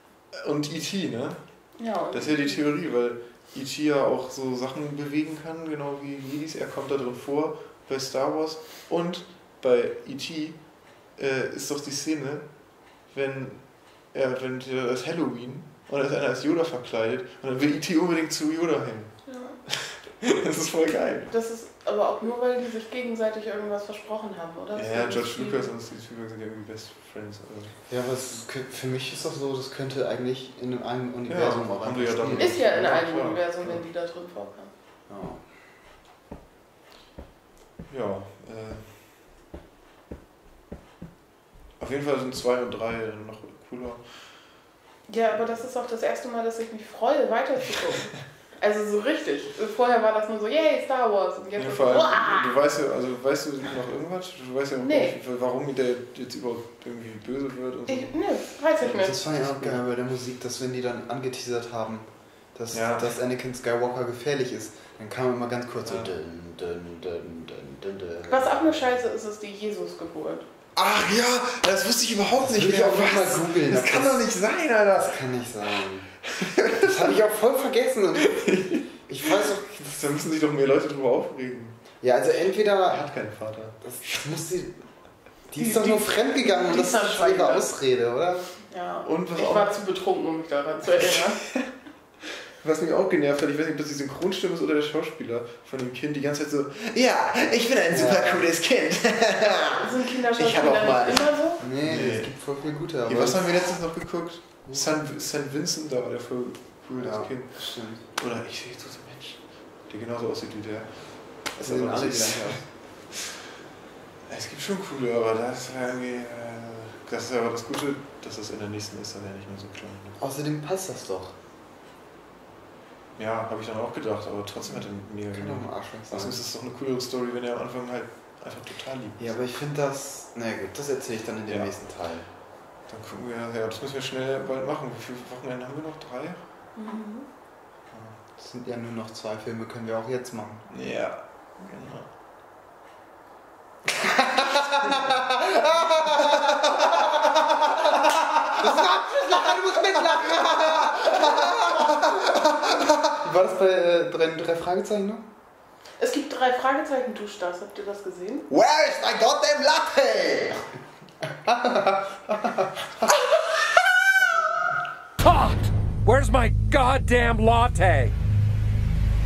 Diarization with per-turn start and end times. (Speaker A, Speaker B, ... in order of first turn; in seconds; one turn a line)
Speaker A: 0.3-21.3
Speaker B: 1.8-2.7
Speaker B: 19.2-19.6
Speaker B: 21.3-25.7
Speaker A: 24.7-27.8
Speaker C: 27.9-32.8
Speaker A: 31.3-33.8
Speaker B: 32.3-34.7
Speaker C: 35.1-35.5
Speaker A: 37.9-39.1
Speaker A: 41.8-44.6
Speaker B: 45.1-52.6
Speaker A: 51.5-59.8
Speaker B: 54.8-55.2
Speaker B: 57.9-59.2
Speaker C: 58.9-69.0
Speaker A: 62.7-63.1
Speaker A: 65.8-66.1
Speaker B: 68.3-70.4
Speaker A: 70.8-75.8
Speaker C: 72.4-79.6
Speaker A: 76.4-76.8
Speaker A: 78.2-81.8
Speaker C: 82.0-83.1
Speaker A: 82.9-84.2
Speaker C: 83.8-84.9
Speaker C: 85.4-88.5
Speaker B: 85.6-87.7
Speaker B: 88.7-91.4
Speaker A: 89.0-89.7
Speaker A: 92.6-113.1
Speaker C: 97.9-98.5
Speaker B: 99.8-101.6
Speaker C: 101.6-103.5
Speaker C: 104.6-104.9
Speaker C: 107.0-108.1
Speaker C: 111.5-112.7
Speaker A: 114.2-120.2
Speaker C: 120.2-121.3
Speaker A: 123.1-129.4
Speaker C: 125.1-126.4
Speaker C: 129.2-132.3
Speaker A: 131.5-131.8
Speaker A: 132.3-136.4
Speaker B: 136.7-137.3
Speaker A: 137.9-138.2
Speaker C: 138.3-140.7
Speaker A: 140.7-142.1
Speaker C: 143.8-147.3
Speaker C: 148.4-155.2
Speaker B: 148.8-149.3
Speaker B: 156.0-158.5
Speaker C: 158.5-160.6
Speaker C: 161.2-163.3
Speaker D: 165.2-168.1